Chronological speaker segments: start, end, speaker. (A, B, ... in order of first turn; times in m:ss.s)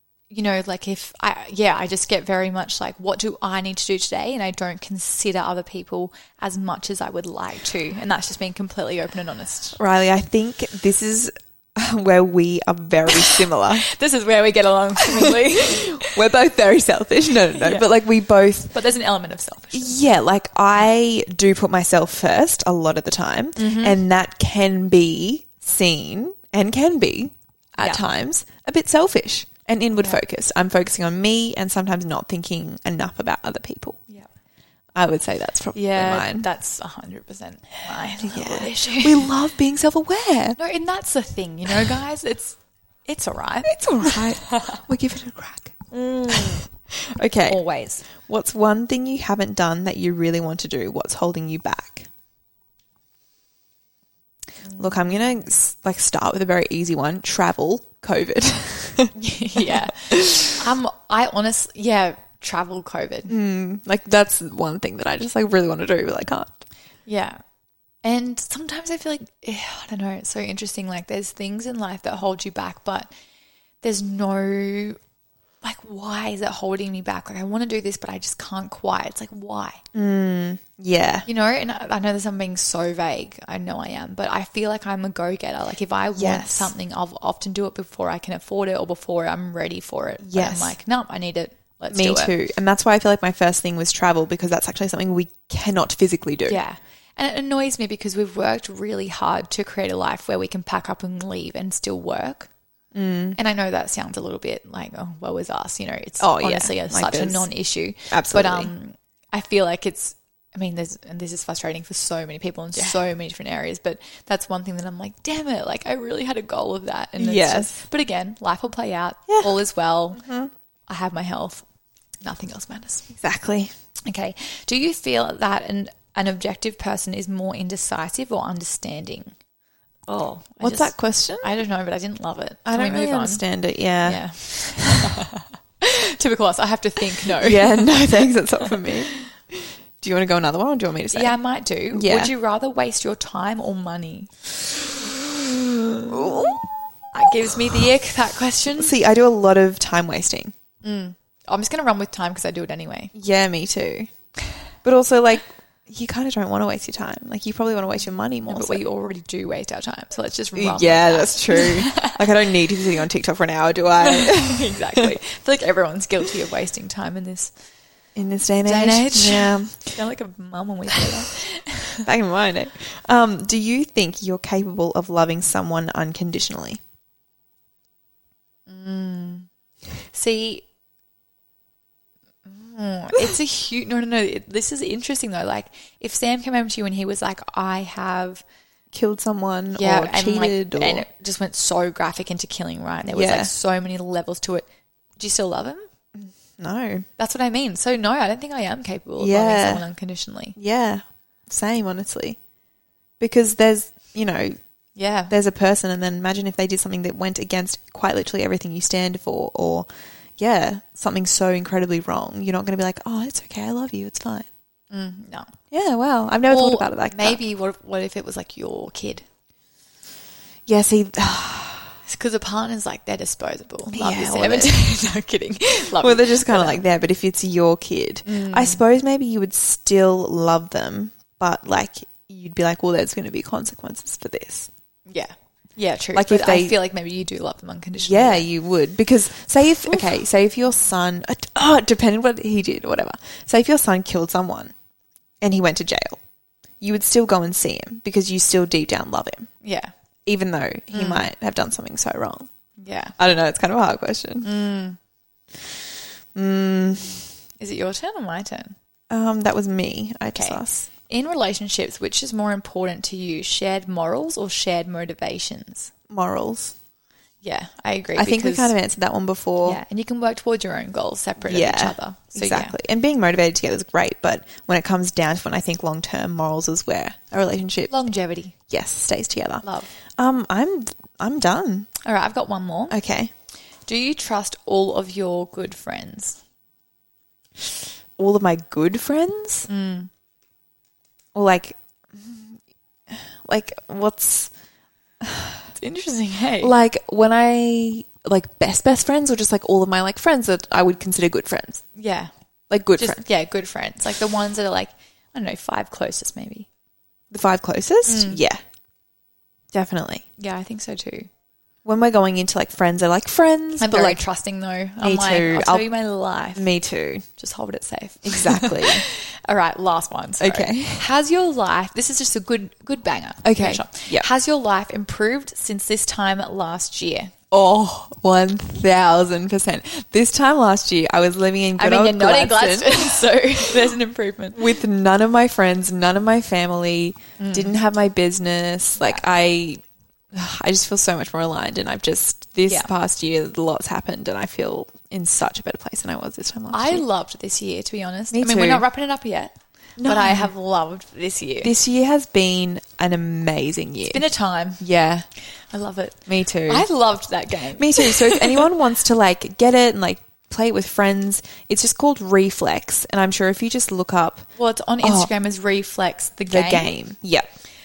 0:00.3-0:09.8 A
0:09.8-0:13.9 B
0:13.2-0:16.2 A
0:15.0-0:18.8 B
0:17.5-0:17.9 A
0:18.7-0:20.0 A
0:19.7-0:34.0 B
0:23.6-0:24.0 A
0:27.8-0:28.0 A
0:35.0-0:36.5 B
0:35.8-0:39.3 A
0:38.2-0:40.6 B
0:40.6-0:44.8 A
0:43.6-0:52.1 B
0:45.9-0:46.7 A
0:47.5-0:48.1 A
0:54.6-0:55.0 A
0:54.8-1:00.5 B
0:59.2-1:03.3 A
1:03.3-1:06.6 B
1:07.1-1:07.4 A
1:08.0-1:13.1 A
1:13.8-1:15.0 A
1:15.6-1:19.8 A
1:19.9-1:21.3 B
1:21.3-1:32.3 A
1:26.2-1:26.7 B
1:30.2-1:30.8 B
1:31.9-1:36.6 B
1:36.5-1:42.5 A
1:42.9-1:43.4 B
1:43.4-2:00.2 A
1:46.2-1:47.5 B
1:48.1-1:48.7 B
1:57.2-1:57.8 B
2:00.2-2:00.5 B
2:00.9-2:01.6 A
2:02.2-2:03.1 A
2:03.1-2:03.7 B
2:04.1-2:09.3 A
2:10.1-2:13.5 A
2:10.6-2:11.5 B
2:12.7-2:15.2 B
2:14.0-2:19.2 A
2:17.3-2:21.4 B
2:21.1-2:24.4 A
2:21.9-2:22.3 B
2:25.8-2:26.6 A
2:26.1-2:26.6 B
2:27.1-2:29.0 A
2:28.8-2:30.5 B
2:30.8-2:33.1 A
2:33.1-2:34.1 B
2:34.8-2:38.8 B
2:38.5-2:42.2 A
2:40.6-2:45.1 B
2:44.0-2:47.5 A
2:48.2-2:50.0 B
2:48.6-2:52.1 A
2:52.0-2:56.8 B
2:58.7-2:59.5 A
3:00.1-3:00.6 A
3:02.5-3:08.4 A
3:08.9-3:11.1 B
3:09.7-3:14.6 A
3:13.1-3:13.5 B
3:15.2-3:15.9 A
3:16.2-3:17.1 B
3:17.2-3:20.6 A
3:19.2-3:19.9 B
3:20.6-3:22.4 B
3:23.2-3:24.6 B
3:25.0-3:25.3 A
3:25.3-3:34.5 B
3:34.9-3:35.5 A
3:35.7-3:37.4 B
3:36.5-3:39.2 A
3:40.7-3:41.9 B
3:42.0-3:46.8 A
3:43.9-3:44.8 B
3:46.0-3:54.7 B
3:48.2-3:48.8 A
3:55.1-3:58.5 A
3:56.2-3:56.8 B
3:58.0-4:04.7 B
4:05.4-4:06.2 B
4:06.8-4:09.5 B
4:09.6-4:09.9 A
4:10.3-4:12.5 B
4:10.9-4:11.3 A
4:12.8-4:13.2 A
4:13.2-4:14.5 B
4:14.4-4:15.0 A
4:16.4-4:17.3 B
4:17.6-4:18.8 A
4:19.1-4:20.9 B
4:20.3-4:25.9 A
4:26.1-4:26.8 B
4:27.4-4:28.8 A
4:28.2-4:29.8 B
4:29.6-4:32.8 A
4:31.4-4:37.9 B
4:37.9-4:38.6 A
4:38.7-4:41.9 B
4:39.6-4:39.9 A
4:42.0-4:43.0 A
4:42.9-4:43.3 B
4:43.9-4:46.4 A
4:48.2-4:49.7 B
4:49.7-4:50.1 A
4:51.3-4:52.6 B
4:53.1-4:54.5 B
4:55.2-4:55.7 B
4:55.7-4:56.7 A
4:56.6-5:01.8 B
5:02.0-5:02.3 A
5:02.7-5:03.2 B
5:03.0-5:06.7 A
5:07.3-5:08.6 B
5:08.0-5:08.4 A
5:09.7-5:10.2 B
5:10.4-5:11.3 A
5:11.8-5:14.2 B
5:13.8-5:16.7 A
5:15.0-5:15.9 B
5:16.5-5:17.2 B
5:17.4-5:27.3 A
5:18.2-5:19.0 B
5:20.4-5:21.1 B
5:23.4-5:24.3 B
5:27.5-5:33.8 B
5:31.8-5:34.7 A
5:34.5-5:47.0 B
5:37.4-5:37.7 A
5:46.7-5:51.7 A
5:48.3-5:48.8 B
5:50.0-5:50.5 B
5:51.6-5:54.2 B
5:54.1-5:54.8 A
5:54.8-5:55.3 B
5:55.4-5:58.7 A
5:56.3-5:56.9 B
5:57.8-6:04.5 B
6:04.6-6:06.9 A
6:05.0-6:05.3 B
6:06.5-6:07.5 B